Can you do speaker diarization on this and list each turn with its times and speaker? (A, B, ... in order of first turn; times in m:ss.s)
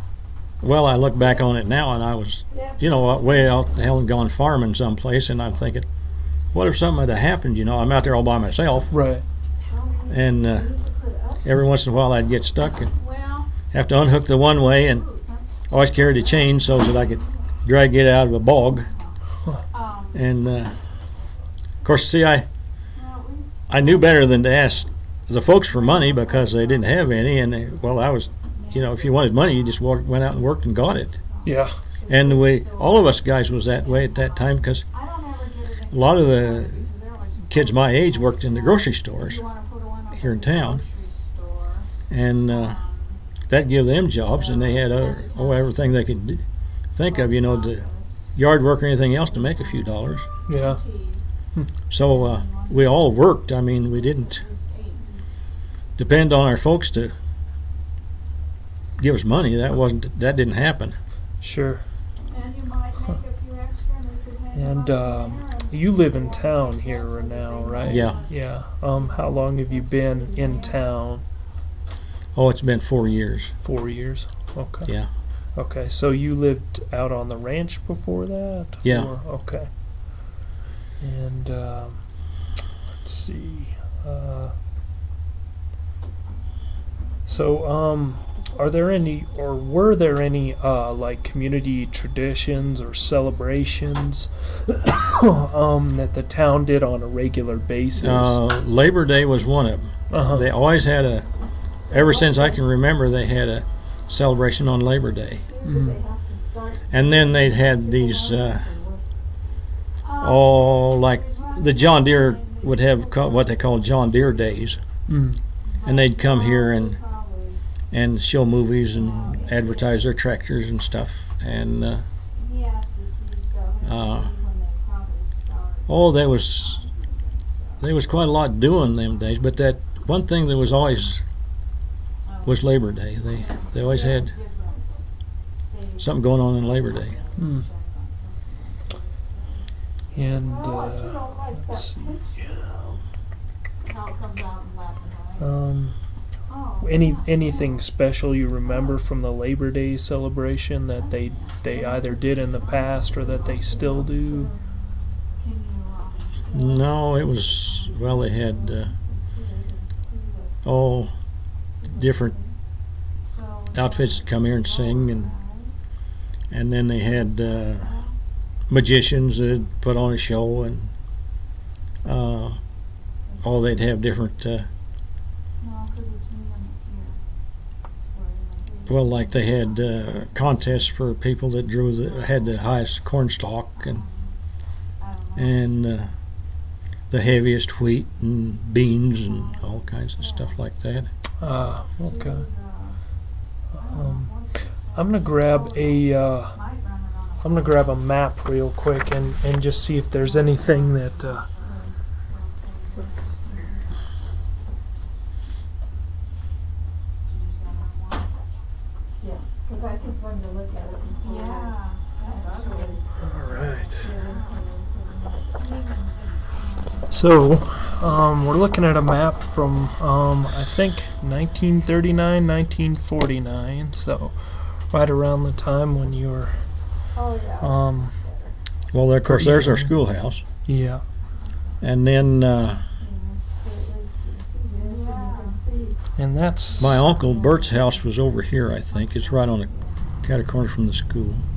0:00.6-0:05.9 A
0:02.5-0:03.6 B
0:06.5-0:08.9 A
0:08.9-0:09.2 C
0:09.6-0:11.5 B
0:10.1-0:10.7 A
0:11.4-0:12.9 A
0:13.0-0:13.5 D
0:13.7-0:15.0 A
0:14.6-0:17.6 D
0:15.7-0:18.9 A
0:18.4-0:19.2 D
0:19.7-0:20.2 D
0:20.1-0:20.8 A
0:21.8-0:22.5 A
0:23.0-0:24.5 D
0:23.7-0:31.1 A
0:25.6-0:27.3 D
0:28.5-0:41.9 D
0:31.4-0:31.8 C
0:32.1-0:34.8 A
0:35.9-0:36.8 A
0:37.5-0:39.4 A
0:40.1-0:40.8 A
0:42.1-0:42.8 A
0:42.4-0:43.2 D
0:43.5-0:46.4 A
0:44.3-0:46.1 D
0:47.0-0:50.3 A
0:47.0-0:48.4 D
0:49.1-0:51.4 D
0:50.5-0:50.8 C
0:51.9-0:54.4 A
0:52.0-0:55.3 D
0:56.0-0:57.1 A
0:59.0-1:01.0 A
1:01.4-1:01.9 C
1:02.3-1:09.0 D
1:04.5-1:11.2 C
1:07.9-1:08.2 A
1:09.0-1:10.9 B
1:12.4-1:13.5 A
1:13.6-1:15.0 C
1:15.6-1:19.7 C
1:18.8-1:19.1 A
1:21.0-1:22.3 C
1:22.9-1:24.6 C
1:27.3-1:38.4 C
1:38.0-1:41.3 A
1:40.1-1:40.5 C
1:41.9-1:42.6 B
1:41.9-1:45.4 A
1:45.3-1:49.1 B
1:45.6-1:46.0 C
1:46.9-1:48.7 A
1:50.0-1:54.8 D
1:50.2-1:54.8 A
1:55.1-1:55.4 C
1:55.7-1:57.6 D
1:55.8-1:57.0 A
1:57.9-2:02.1 A
1:58.7-2:00.3 D
2:02.3-2:09.4 D
2:03.8-2:04.3 A
2:05.9-2:06.8 A
2:07.8-2:11.2 A
2:12.2-2:15.0 D
2:12.4-2:14.3 A
2:15.6-2:19.7 D
2:16.0-2:17.2 A
2:17.4-2:17.7 C
2:20.1-2:22.6 C
2:20.4-2:23.0 B
2:23.8-2:25.6 D
2:25.4-2:26.0 C
2:26.5-2:27.8 D
2:26.8-2:34.5 C
2:28.6-2:29.0 D
2:31.0-2:38.4 D
2:33.2-2:34.6 B
2:36.5-2:38.9 A
2:38.3-2:40.6 B
2:40.6-2:41.1 A
2:41.8-2:42.5 D
2:41.9-2:42.4 A
2:42.1-2:42.4 B
2:43.2-2:45.7 D
2:43.7-2:45.3 A
2:46.5-2:47.9 A
2:47.0-2:48.3 D
2:48.7-2:50.9 A
2:52.0-2:52.6 A
2:53.4-2:54.7 A
2:55.6-2:57.2 D
2:58.1-3:00.9 D
2:58.9-3:04.0 A
3:01.9-3:02.6 D
3:03.8-3:04.4 D
3:05.0-3:05.6 D
3:05.4-3:06.1 A
3:07.1-3:11.1 A
3:09.2-3:10.7 D
3:11.4-3:12.4 C
3:11.4-3:13.0 D
3:13.7-3:16.6 C
3:13.7-3:18.1 D
3:17.4-3:21.5 C
3:19.0-3:24.5 D
3:23.0-3:23.7 B
3:27.2-3:28.5 D
3:29.2-3:35.6 B
3:31.2-3:34.6 D
3:33.2-3:34.1 C
3:35.6-3:38.8 D
3:37.1-3:46.6 C
3:47.1-3:48.6 B
3:47.6-3:48.2 C
3:48.9-3:50.4 A
3:49.2-3:49.9 C
3:50.7-3:51.0 C
3:51.3-3:51.8 D
3:51.8-3:52.8 A
3:53.0-3:56.0 B
3:54.7-3:55.8 D
3:56.2-3:57.1 C
3:56.8-4:00.0 D
3:56.8-3:59.7 A
4:00.2-4:01.4 A